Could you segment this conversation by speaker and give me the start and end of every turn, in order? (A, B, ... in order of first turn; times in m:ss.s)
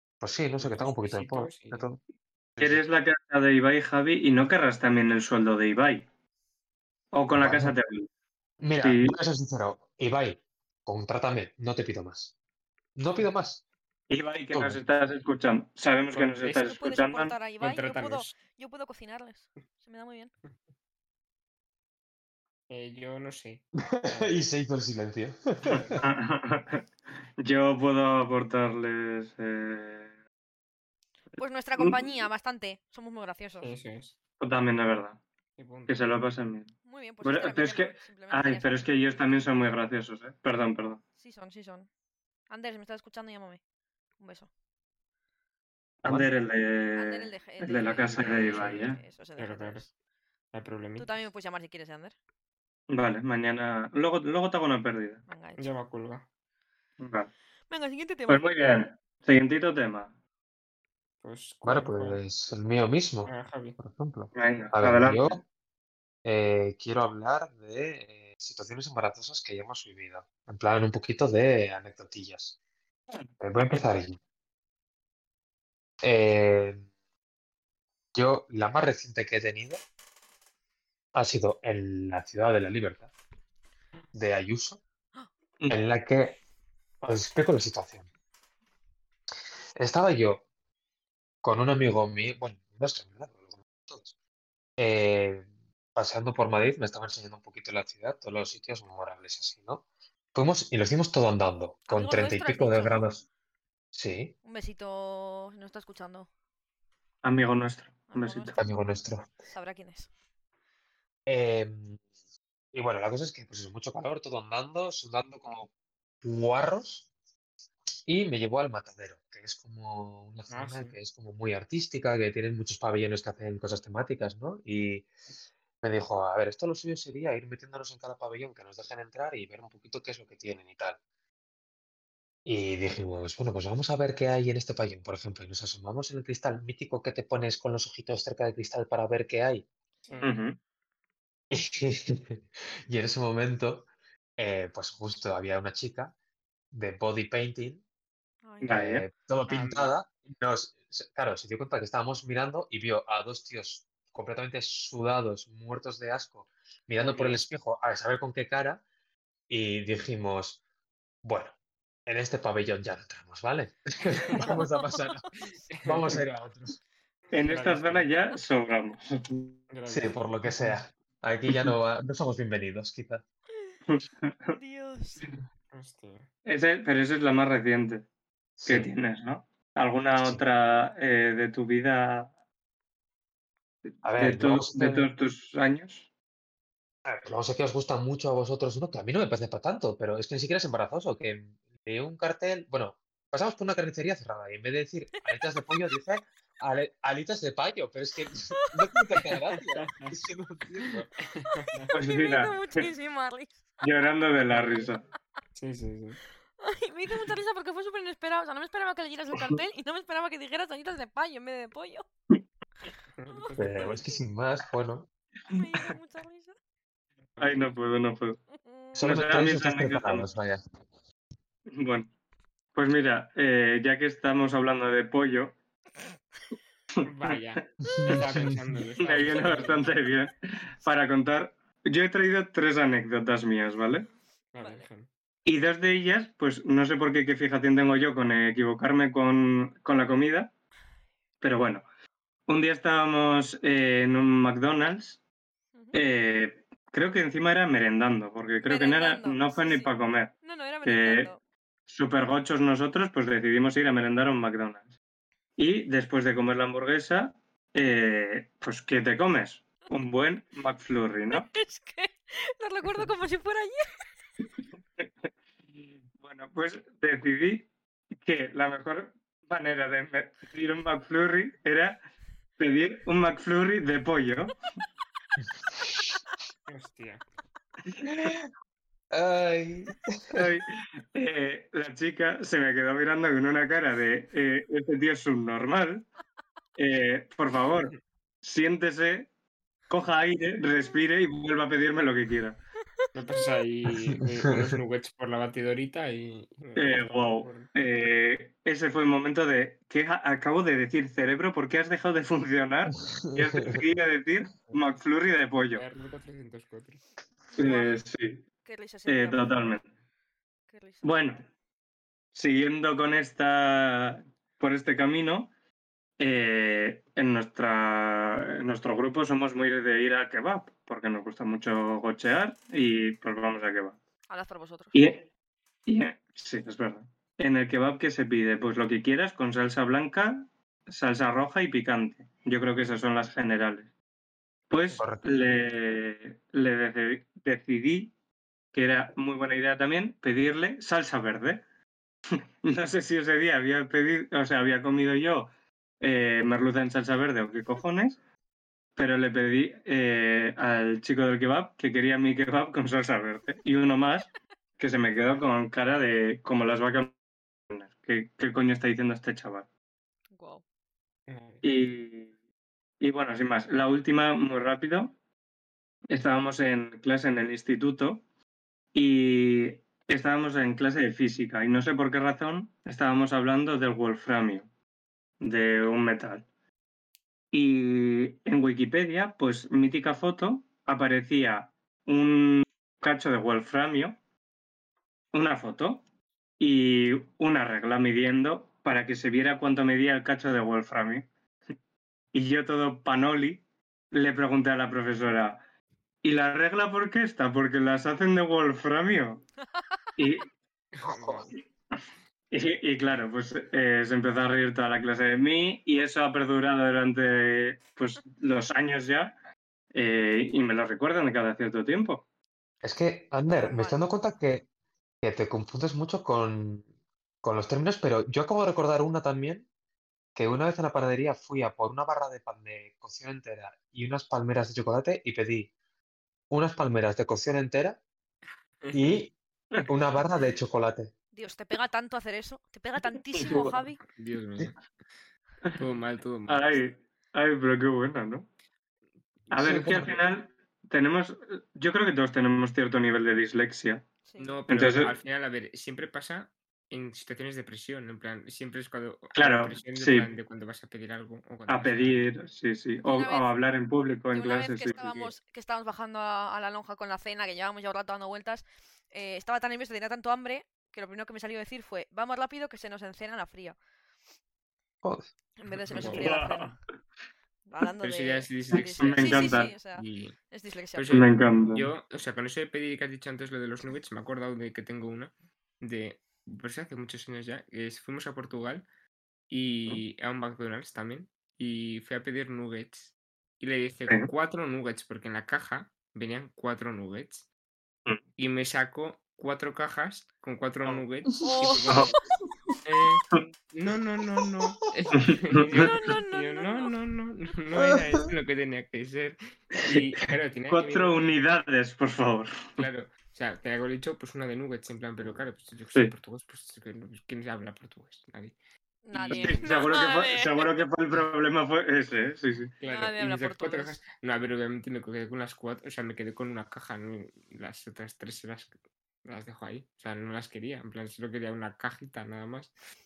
0:00.2-0:02.0 A
0:00.6-0:01.9 B
0:02.6-0:02.8 A
0:02.6-0:06.0 C
0:07.1-0:08.1 C
0:07.4-0:07.8 A
0:08.6-0:12.3 A
0:08.8-0:09.2 C
0:13.0-0:13.6 A
0:14.1-0:17.4 C
0:14.5-0:14.8 A
0:16.1-0:16.7 B
0:16.5-0:20.3 D
0:17.6-0:18.3 B
0:22.7-0:24.4 B
0:23.8-0:26.0 A
0:25.7-0:26.0 B
0:25.7-0:26.8 C
0:27.4-0:30.1 C
0:31.4-0:33.7 D
0:31.8-0:32.0 C
0:33.6-0:34.2 B
0:34.4-0:35.2 C
0:35.6-0:36.1 B
0:35.9-0:36.7 C
0:36.8-0:39.7 D
0:37.2-0:41.0 C
0:41.2-0:41.9 D
0:42.5-0:43.6 D
0:44.2-0:44.5 D
0:46.0-0:49.0 C
0:47.0-0:49.9 D
0:47.9-0:49.9 B
0:50.5-0:51.2 B
0:51.0-0:52.2 D
0:52.9-0:55.2 C
0:55.3-0:55.8 D
0:55.6-0:56.3 B
0:57.0-0:57.3 C
0:57.7-0:58.5 D
0:58.3-1:00.1 C
1:01.2-1:02.2 B
1:01.6-1:05.4 A
1:03.2-1:03.8 B
1:04.3-1:05.4 C
1:06.2-1:12.6 A
1:13.4-1:14.2 A
1:16.0-1:16.8 A
1:18.1-1:19.8 A
1:21.1-1:23.1 A
1:24.1-1:24.8 A
1:25.7-1:26.4 A
1:27.0-1:28.1 A
1:29.8-1:30.4 A
1:31.4-1:34.1 A
1:34.8-1:43.2 A
1:41.9-1:43.0 D
1:43.9-1:44.3 A
1:44.4-1:46.3 D
1:47.2-1:48.6 C
1:48.1-1:48.7 D
1:48.6-1:49.3 A
1:49.5-1:50.1 D
1:51.3-1:52.0 A
1:52.7-1:55.7 A
1:56.2-1:57.1 A
1:58.1-2:05.1 A
2:00.5-2:01.0 B
2:05.8-2:11.0 A
2:12.4-2:19.7 A
2:20.1-2:20.4 B
2:20.2-2:20.6 C
2:21.5-2:26.1 A
2:26.7-2:27.8 A
2:28.4-2:28.9 D
2:28.6-2:29.0 C
2:28.7-2:38.8 A
2:29.5-2:29.9 B
2:37.0-2:37.4 B
2:39.5-2:40.6 A
2:41.2-2:41.6 A
2:42.1-2:45.3 A
2:44.2-2:44.6 B
2:44.4-2:45.1 D
2:45.7-2:46.2 B
2:45.8-2:46.8 A
2:47.3-2:48.1 B
2:47.3-2:49.6 C
2:49.7-2:50.8 B
2:49.9-2:53.2 A
2:53.9-2:54.6 C
2:54.5-2:55.3 D
2:55.7-2:56.3 B
2:56.5-2:58.0 C
2:58.6-2:58.9 A
2:58.7-3:02.3 C
3:00.1-3:00.4 A
3:04.0-3:05.1 A
3:04.2-3:06.1 C
3:07.0-3:21.1 A
3:19.8-3:20.1 B
3:20.9-3:21.9 B
3:21.5-3:23.7 D
3:21.9-3:22.9 C
3:23.8-3:25.0 C
3:24.5-3:24.8 B
3:25.6-3:26.2 B
3:26.6-3:32.1 D
3:33.2-3:34.0 B
3:33.3-3:34.0 D
3:33.6-3:35.1 A
3:35.5-3:36.6 D
3:37.4-3:37.7 B
3:37.4-3:38.4 C
3:38.6-3:39.0 D
3:39.0-3:40.6 A
3:39.0-3:40.3 C
3:41.7-3:42.1 C
3:42.8-3:45.6 C
3:47.0-3:48.1 C
3:47.0-3:49.9 B
3:47.9-3:48.7 A
3:49.0-3:54.1 C
3:54.5-3:55.1 B
3:55.4-4:00.5 C
4:01.4-4:01.8 C
4:02.5-4:05.2 C
4:05.9-4:10.3 C
4:08.6-4:11.4 D
4:10.8-4:11.3 C
4:11.9-4:14.9 C
4:15.6-4:21.5 C
4:21.3-4:23.9 D
4:25.8-4:32.0 C
4:32.6-4:34.6 C
4:35.7-4:36.1 A
4:36.7-4:37.2 B
4:38.0-4:38.5 A
4:39.1-4:40.5 A
4:40.3-4:46.1 C
4:46.8-4:49.3 C
4:49.9-4:52.6 C
4:53.1-4:57.7 B
4:53.9-4:54.8 A
4:56.8-5:05.8 C
5:03.0-5:03.8 A
5:05.7-5:07.0 B
5:07.6-5:08.0 D
5:07.6-5:08.4 C
5:08.6-5:09.8 D
5:09.1-5:09.8 C
5:10.7-5:11.1 D
5:11.0-5:11.4 C
5:12.3-5:15.5 C
5:16.2-5:24.0 C
5:24.3-5:25.0 D
5:24.9-5:25.3 C
5:25.9-5:33.9 C
5:34.7-5:38.1 C
5:34.9-5:35.5 A
5:38.7-5:41.6 C
5:42.6-5:45.5 C
5:46.0-5:48.2 C
5:49.0-5:57.2 C
5:57.7-5:59.7 C
6:00.4-6:00.6 D
6:01.3-6:01.6 B
6:01.6-6:02.3 C
6:03.0-6:05.1 C
6:06.1-6:08.2 C
6:08.9-6:14.7 C
6:15.4-6:16.5 C
6:17.5-6:24.2 C
6:25.3-6:26.0 C
6:26.6-6:31.3 C
6:32.3-6:35.6 C
6:36.2-6:39.4 C
6:40.2-6:40.5 C
6:41.0-6:41.5 B
6:41.1-6:41.5 A
6:42.5-6:49.3 C
6:49.9-6:52.2 C
6:52.8-6:54.7 A
6:53.5-6:54.0 D
6:55.2-6:56.8 A
6:57.4-6:59.7 A
7:00.4-7:05.7 A
7:06.5-7:08.0 A
7:08.8-7:09.2 B
7:08.9-7:09.3 A
7:09.8-7:11.1 A
7:11.3-7:14.0 D
7:13.3-7:13.8 C
7:14.1-7:14.8 B
7:15.8-7:16.8 B
7:16.5-7:18.5 C
7:19.5-7:20.2 B
7:19.5-7:24.0 C
7:19.6-7:20.1 A
7:24.2-7:24.6 D
7:24.4-7:32.3 B
7:24.7-7:25.1 C
7:29.4-7:30.3 C
7:31.7-7:35.0 C
7:33.0-7:33.5 D
7:34.3-7:43.8 D
7:34.8-7:35.3 B
7:45.6-7:46.8 D
7:45.9-7:46.4 B
7:46.0-7:46.8 C
7:47.7-7:51.2 D
7:48.0-7:50.4 B
7:49.0-7:49.7 C
7:51.0-7:58.8 B
7:51.1-7:51.9 C
7:59.5-8:07.5 B
8:08.4-8:12.1 B
8:11.4-8:12.0 D
8:11.9-8:12.1 C
8:12.8-8:21.2 B
8:15.2-8:15.9 C
8:15.7-8:16.9 D
8:17.8-8:18.3 A
8:20.7-8:22.9 C
8:22.8-8:28.6 B
8:29.1-8:30.8 D
8:29.1-8:29.8 B
8:29.3-8:32.7 C
8:32.8-8:38.7 B
8:32.9-8:34.0 D
8:39.2-8:42.7 B